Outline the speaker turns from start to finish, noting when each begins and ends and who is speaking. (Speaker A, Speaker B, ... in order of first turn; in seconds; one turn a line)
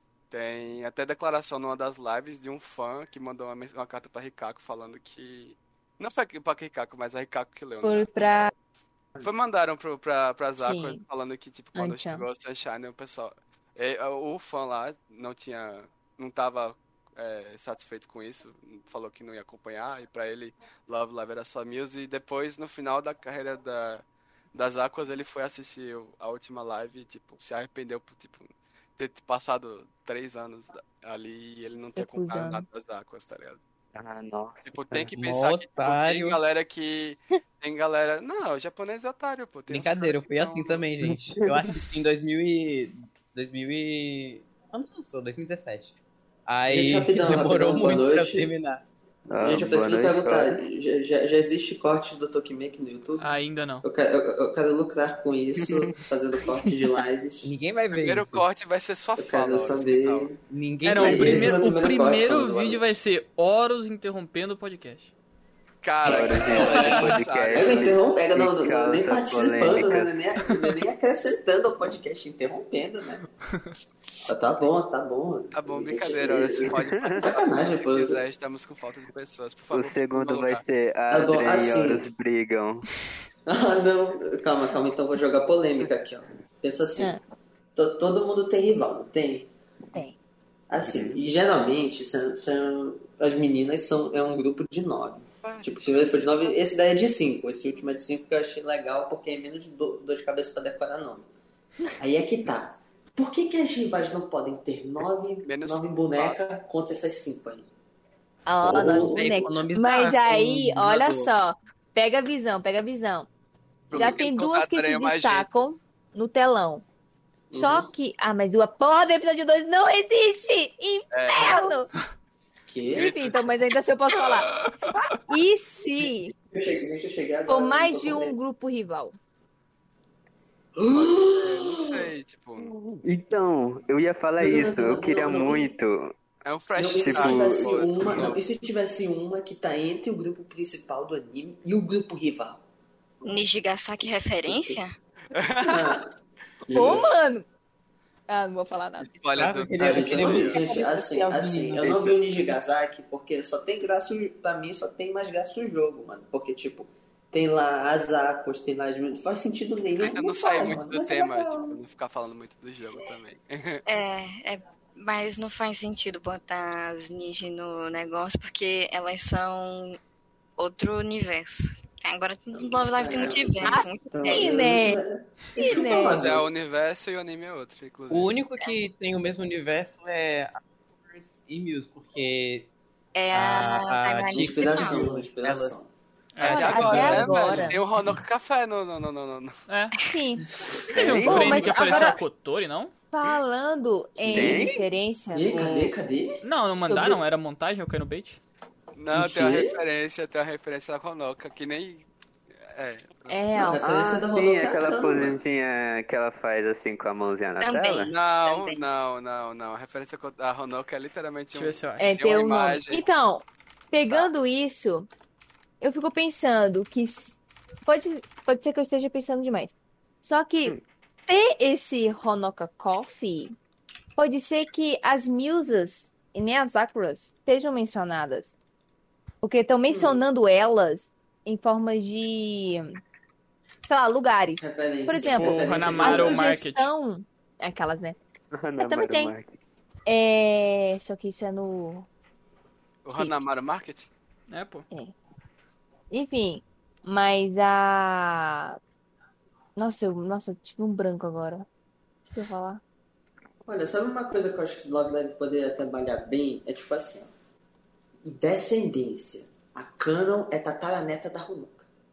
Speaker A: 0.3-8.3
Speaker B: 7.8-8.5
Speaker A: 9.2-33.6
Speaker B: 10.6-11.0
Speaker B: 11.8-12.3
Speaker B: 32.0-32.7
Speaker C: 34.0-35.1
Speaker A: 34.7-40.9
Speaker D: 35.1-36.4
Speaker D: 39.7-48.9
Speaker C: 41.0-41.8
Speaker E: 46.7-48.5
Speaker C: 49.3-50.6
Speaker E: 49.4-53.3
Speaker F: 53.2-53.9
Speaker E: 53.8-57.5
Speaker D: 57.4-58.5
Speaker A: 57.9-60.3
Speaker E: 59.2-60.4
Speaker D: 60.5-61.6
Speaker F: 60.8-65.1
Speaker E: 61.0-62.9
Speaker A: 65.8-68.0
Speaker C: 66.1-70.3
Speaker E: 66.1-66.9
Speaker F: 66.7-67.0
Speaker E: 67.5-73.3
Speaker E: 74.3-78.2
Speaker A: 75.5-80.6
Speaker C: 79.7-82.9
Speaker E: 81.1-82.1
Speaker E: 83.5-87.1
Speaker E: 87.8-89.5
Speaker E: 90.7-101.3
Speaker C: 90.8-91.2
Speaker A: 95.4-96.5
Speaker E: 102.0-107.7
Speaker A: 105.5-106.4
Speaker B: 108.5-113.3
Speaker E: 108.6-109.3
Speaker D: 108.9-111.3
Speaker E: 113.9-114.2
Speaker A: 113.9-115.5
Speaker B: 113.9-116.8
Speaker E: 117.5-117.9
Speaker B: 117.5-121.9
Speaker A: 121.1-121.7
Speaker E: 122.7-123.3
Speaker A: 122.9-123.5
Speaker B: 122.9-124.5
Speaker A: 124.4-124.9
Speaker B: 125.3-126.3
Speaker E: 126.5-128.3
Speaker B: 127.5-129.2
Speaker E: 130.8-132.1
Speaker A: 130.9-132.7
Speaker C: 132.6-136.2
Speaker E: 134.4-135.7
Speaker A: 136.4-138.4
Speaker E: 136.8-142.6
Speaker C: 136.9-138.3
Speaker G: 143.2-144.9
Speaker E: 144.4-144.8
Speaker A: 145.3-146.0
Speaker E: 145.7-146.1
Speaker E: 146.7-147.1
Speaker B: 146.7-147.5
Speaker B: 148.3-149.1
Speaker A: 149.0-150.6
Speaker D: 149.4-152.2
Speaker E: 149.8-161.8
Speaker C: 151.8-152.2
Speaker A: 160.0-163.8
Speaker G: 163.9-170.0
Speaker G: 170.6-174.8
Speaker E: 172.5-176.5
Speaker B: 173.6-175.0
Speaker B: 175.6-176.2
Speaker A: 175.7-178.3
Speaker D: 178.1-182.7
Speaker G: 183.2-185.1
Speaker D: 183.3-185.8
Speaker E: 184.3-185.9
Speaker F: 186.3-186.8
Speaker A: 186.4-189.6
Speaker D: 186.4-187.7
Speaker B: 186.4-187.8
Speaker F: 189.7-189.9
Speaker B: 190.1-190.4
Speaker E: 190.4-190.9
Speaker C: 190.9-191.8
Speaker F: 191.0-192.9
Speaker B: 191.2-192.2
Speaker B: 193.1-195.5
Speaker E: 194.2-194.7
Speaker C: 194.3-194.7
Speaker E: 195.3-196.4
Speaker F: 195.5-195.9
Speaker F: 196.4-198.4
Speaker B: 196.8-197.2
Speaker A: 199.0-202.1
Speaker E: 199.1-199.8
Speaker A: 202.7-203.4
Speaker B: 203.3-203.8
Speaker E: 203.6-205.4
Speaker C: 203.8-208.1
Speaker G: 207.6-208.8
Speaker A: 208.1-213.1
Speaker F: 211.5-212.2
Speaker B: 212.0-215.1
Speaker B: 215.8-223.6
Speaker B: 224.2-228.6
Speaker B: 229.4-233.0
Speaker E: 229.9-230.2
Speaker B: 233.9-238.2
Speaker E: 234.6-236.5
Speaker F: 235.3-236.9
Speaker C: 238.5-239.6
Speaker B: 238.8-239.3
Speaker B: 240.1-242.1
Speaker A: 243.1-244.1
Speaker F: 244.5-244.8
Speaker B: 246.1-248.8
Speaker B: 249.8-251.7
Speaker B: 252.3-252.8
Speaker E: 253.7-257.3
Speaker E: 258.2-261.9